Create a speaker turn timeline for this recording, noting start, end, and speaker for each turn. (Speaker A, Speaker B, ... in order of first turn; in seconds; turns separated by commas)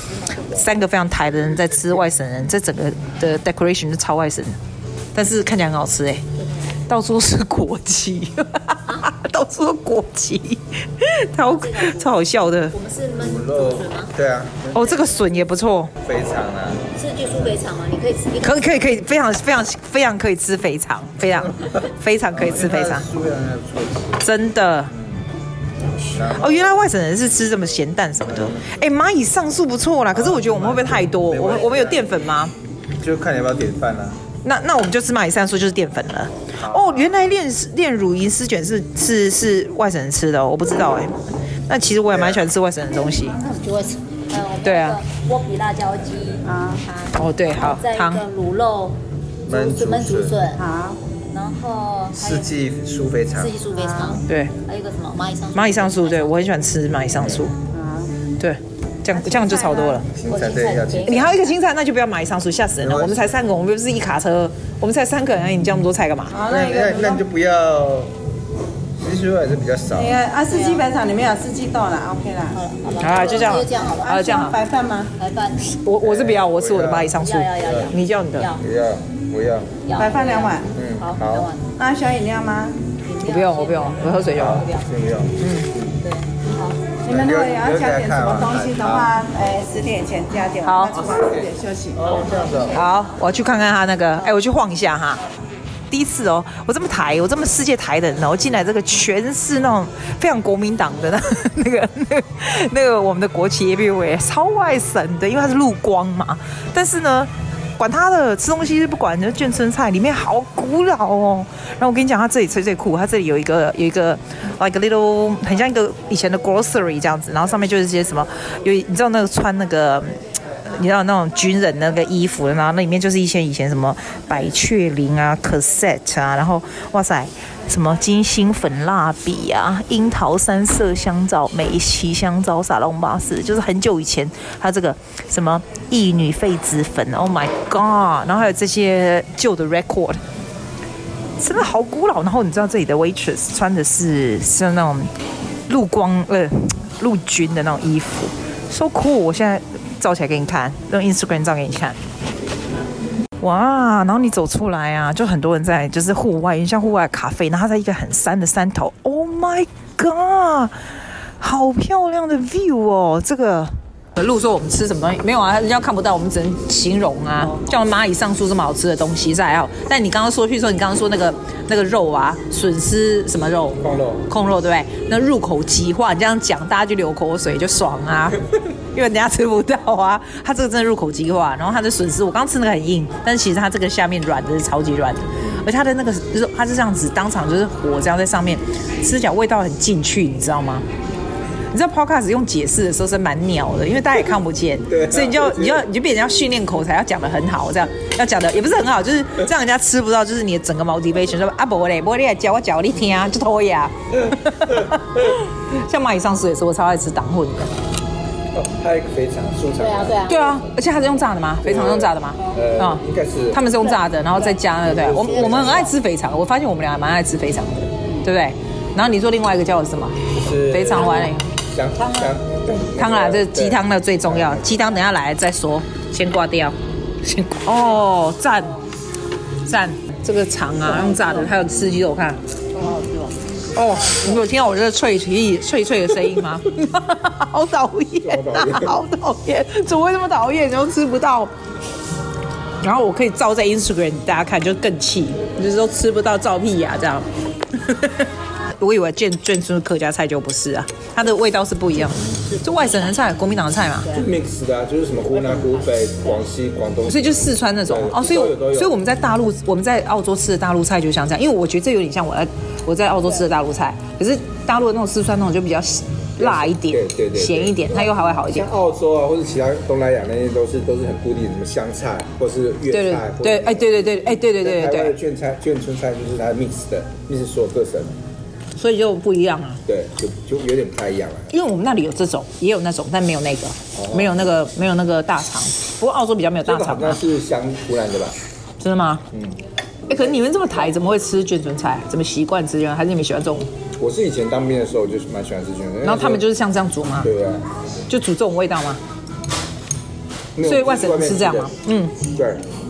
Speaker A: 0.4-4.6, Speaker A: 5.1-6.2, Speaker B: 6.4-6.7, Speaker A: 6.9-12.8, Speaker B: 11.4-14.1, Speaker C: 13.2-15.1, Speaker A: 14.7-15.9, Speaker B: 14.9-15.5, Speaker C: 16.0-16.9, Speaker B: 16.9-19.0, Speaker A: 18.4-23.1, Speaker C: 22.3-24.3, Speaker A: 24.2-24.9, Speaker C: 24.9-25.3, Speaker C: 26.1-26.9, Speaker A: 26.3-32.5, Speaker C: 28.4-28.8, Speaker C: 30.1-32.2, Speaker C: 33.0-34.2, Speaker A: 34.4-41.1, Speaker C: 36.6-37.0, Speaker A: 41.7-43.4, Speaker C: 42.1-42.5, Speaker B: 43.4-50.7, Speaker A: 44.6-45.0, Speaker D: 46.5-46.8, Speaker A: 47.1-48.3, Speaker C: 49.5-50.4, Speaker D: 50.5-51.0, Speaker B: 51.3-52.5, Speaker C: 52.1-53.6, Speaker B: 53.3-56.4, Speaker D: 53.7-54.2, Speaker A: 54.2-54.5, Speaker A: 55.5-57.5, Speaker C: 57.2-57.5, Speaker D: 57.7-58.1, Speaker A: 58.4-60.1, Speaker D: 59.2-60.0, Speaker C: 60.1-61.4, Speaker B: 60.2-61.6, Speaker A: 61.0-66.4, Speaker C: 62.8-63.3, Speaker D: 66.3-67.2, Speaker C: 66.4-68.2, Speaker C: 69.0-70.2, Speaker D: 70.0-72.6, Speaker B: 70.5-70.9, Speaker B: 72.5-74.3, Speaker A: 73.0-74.6, Speaker D: 74.0-75.1, Speaker B: 75.2-75.7, Speaker A: 75.7-78.5, Speaker C: 76.0-77.9, Speaker B: 77.1-78.6, Speaker C: 78.6-79.8, Speaker B: 79.8-81.7, Speaker D: 80.0-80.7, Speaker C: 80.8-81.5, Speaker D: 81.8-82.8, Speaker B: 83.0-84.9, Speaker A: 83.2-84.7, Speaker C: 84.4-86.0, Speaker A: 85.4-85.7, Speaker B: 86.0-86.9, Speaker C: 87.0-89.3, Speaker D: 87.0-92.1, Speaker A: 90.6-91.0, Speaker C: 90.9-92.8, Speaker B: 92.1-92.9, Speaker A: 92.7-95.2, Speaker A: 95.9-140.2, Speaker A: 141.4-145.1, Speaker A: 145.7-152.0, Speaker A: 153.4-160.8, Speaker A: 161.4-190.8, Speaker C: 173.8-174.3, Speaker A: 191.7-207.7, Speaker C: 194.9-195.9, Speaker C: 204.4-205.0, Speaker C: 208.5-210.5, Speaker B: 209.8-210.6, Speaker A: 210.3-221.5, Speaker C: 211.6-213.6, Speaker B: 212.4-212.6, Speaker B: 213.8-215.9, Speaker C: 214.8-215.9, Speaker C: 220.4-225.0, Speaker B: 220.9-221.3, Speaker B: 222.0-222.4, Speaker A: 223.0-228.8, Speaker A: 229.7-232.4, Speaker B: 230.8-231.6, Speaker B: 232.7-234.5, Speaker A: 233.7-241.5, Speaker C: 238.1-239.0, Speaker A: 242.8-254.2, Speaker C: 254.1-258.9, Speaker A: 257.1-268.7, Speaker C: 266.4-278.2, Speaker A: 272.9-275.2, Speaker A: 278.8-279.8, Speaker C: 279.9-281.5, Speaker A: 281.5-287.2, Speaker C: 283.9-284.4, Speaker C: 286.6-288.4, Speaker A: 288.8-289.3, Speaker C: 289.3-289.6, Speaker A: 290.1-293.7, Speaker C: 294.0-296.4, Speaker A: 296.0-297.3, Speaker C: 297.2-297.7, Speaker A: 298.1-299.0, Speaker C: 300.6-302.6, Speaker A: 300.6-302.2